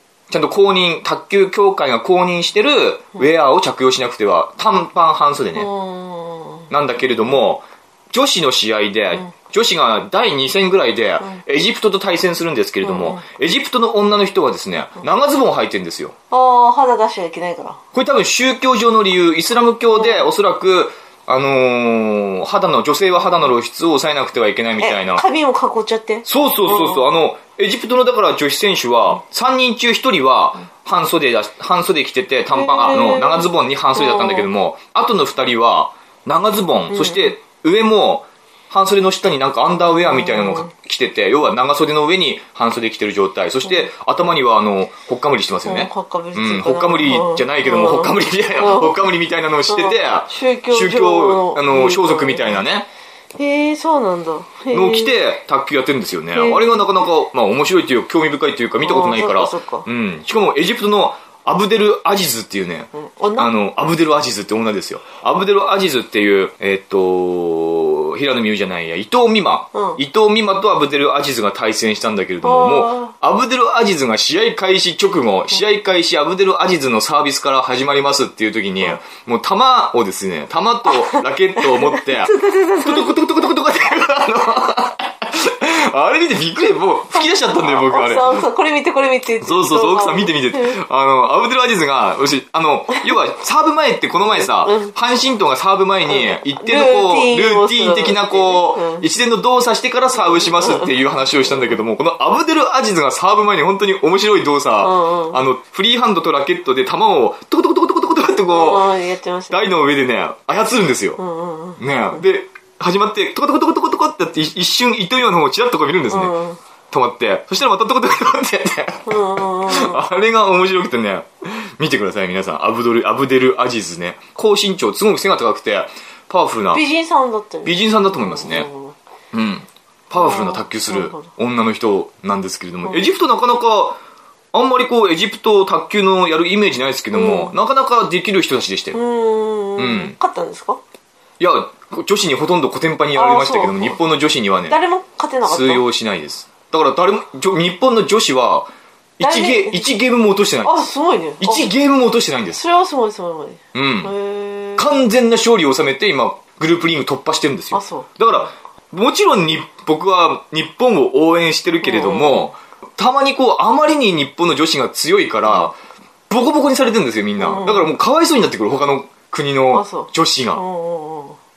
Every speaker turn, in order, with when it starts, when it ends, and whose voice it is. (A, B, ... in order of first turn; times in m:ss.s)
0:00.3-0:05.7 A
0:05.6-0:06.7 B
0:06.7-0:16.1 A
0:12.8-0:13.2 B
0:16.3-0:17.8 B
0:17.9-0:25.2 A
0:20.0-0:20.3 B
0:24.8-0:27.1 B
0:26.2-0:52.9 A
0:32.5-0:34.5 B
0:36.9-0:37.4 B
0:40.0-0:40.7 B
0:45.6-0:49.1 B
0:49.7-0:52.6 B
0:53.4-0:55.2 B
0:54.7-1:22.3 A
0:56.3-0:56.8 B
0:58.8-0:59.9 B
1:03.0-1:03.5 B
1:09.7-1:10.0 B
1:12.4-1:13.1 B
1:20.9-1:21.2 B
1:21.7-1:23.2 B
1:22.8-1:28.4 A
1:27.2-1:30.8 B
1:29.4-1:49.0 A
1:34.4-1:34.9 B
1:36.1-1:39.0 B
1:40.4-1:40.9 B
1:44.8-1:45.4 B
1:48.5-1:49.7 B
1:49.5-1:51.2 A
1:51.2-1:52.2 B
1:51.8-1:56.3 A
1:56.1-1:56.6 B
1:56.9-2:06.8 A
1:59.0-2:00.0 B
2:06.7-2:08.9 B
2:07.6-2:08.7 A
2:09.3-2:14.0 A
2:10.1-2:11.3 B
2:14.5-2:19.0 A
2:17.1-2:17.6 B
2:18.9-2:20.8 B
2:19.8-2:20.1 A
2:21.4-2:24.8 A
2:23.1-2:24.0 B
2:24.7-2:25.8 B
2:25.4-2:30.9 A
2:29.2-2:29.9 B
2:30.6-2:31.7 B
2:31.4-2:32.6 A
2:32.5-2:35.0 B
2:33.7-2:34.1 A
2:34.8-2:45.7 A
2:37.7-2:38.5 B
2:41.8-2:42.5 B
2:46.3-2:50.6 A
2:47.4-2:47.9 B
2:49.7-2:51.4 B